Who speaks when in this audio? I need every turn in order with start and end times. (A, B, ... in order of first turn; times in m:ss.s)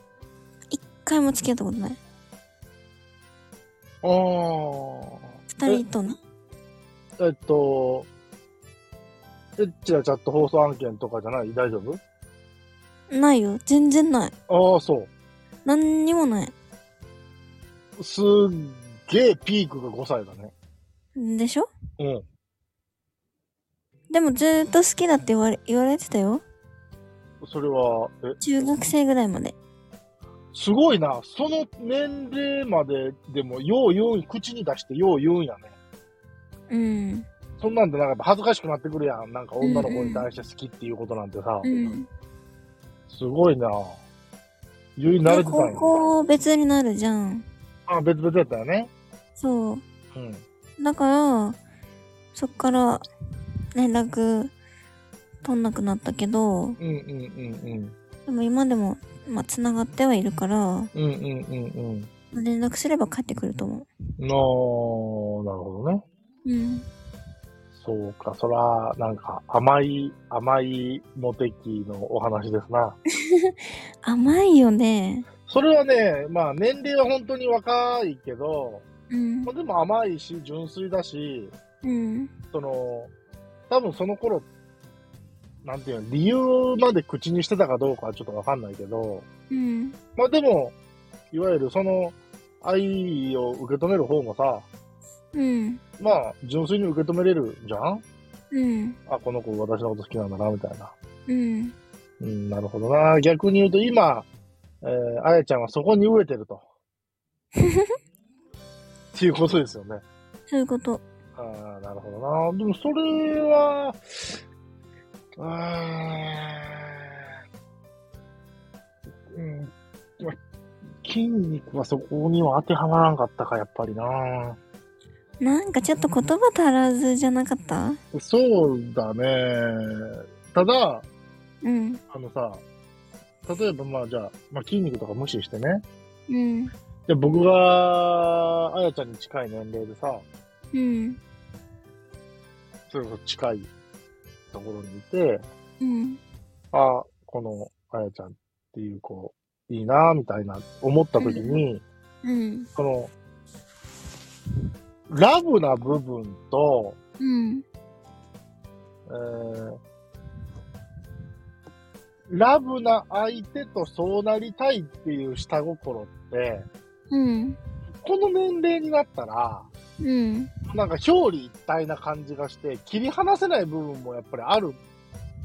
0:00.7-0:02.0 A
0:04.0-0:05.8 B
0:05.5-0:06.2 A
0:07.2-0:08.1 B
0:09.6-0:12.0 B
0:13.1-0:14.3 A
0:14.5-0:15.1 B
0:15.6-0:16.5 A
0:18.0-0:20.5 B
0:21.1-0:21.7 A
0:22.0-0:22.2 B
0:24.1-0:26.4 A
0:27.4-0:28.4 B
0:28.4-0:29.5 A
0:30.5-0:35.8 B
0:36.7-0:37.3 A
0:37.6-0:41.7 B
0:39.6-0:40.3 A
0:41.6-0:42.1 A
0:43.1-0:44.0 B
0:45.0-0:45.9 B
0:45.2-0:47.4 A
0:47.9-0:48.9 B
0:49.4-0:49.8 A
0:50.1-0:50.4 B
0:50.8-0:51.6 A
0:52.4-0:53.0 A
0:53.8-0:54.5 A
0:55.4-0:56.8 A
0:56.8-0:57.9 B
0:58.2-1:00.9 A
1:00.9-1:02.1 B
1:02.3-1:03.9 A
1:04.2-1:06.0 B
1:06.4-1:06.9 A
1:07.8-1:13.0 B
1:13.2-1:15.3 A
1:15.5-1:18.9 B
1:19.1-1:19.5 A
1:19.4-1:21.6 B
1:21.8-1:22.3 A
1:22.5-1:23.1 B
1:23.7-1:24.5 B
1:25.6-1:29.3 B
1:29.5-1:30.0 A
1:30.2-1:30.8 B
1:31.3-1:34.7 B
1:35.3-1:35.8 A
1:36.0-1:38.0 B
1:38.5-1:39.0 A
1:39.0-1:40.9 B
1:41.3-1:41.8 A
1:42.2-1:44.3 B
1:44.8-1:46.6 B
1:47.6-1:47.9 A
1:49.1-1:50.0 B
1:50.5-1:51.0 A
1:51.4-1:54.4 B
1:55.4-1:57.2 B
1:59.3-2:00.4 B
2:01.0-2:04.6 B
2:05.4-2:08.0 A
2:08.1-2:11.1 B
2:11.6-2:12.0 A
2:12.1-2:12.6 B
2:13.4-2:15.8 B
2:16.3-2:16.7 A
2:17.1-2:20.2 B
2:20.7-2:21.2 A
2:22.9-2:23.7 B
2:24.5-2:25.4 B
2:25.8-2:26.2 A
2:26.7-2:31.8 B
2:31.2-2:31.6 A
2:32.2-2:32.7 A
2:32.8-2:33.1 B
2:35.1-2:37.0 B
2:37.2-2:37.6 A
2:39.1-2:39.8 B
2:42.3-2:46.7 B
2:47.1-2:47.6 A
2:47.9-2:49.7 B
2:50.0-2:50.5 A
2:50.7-2:54.8 B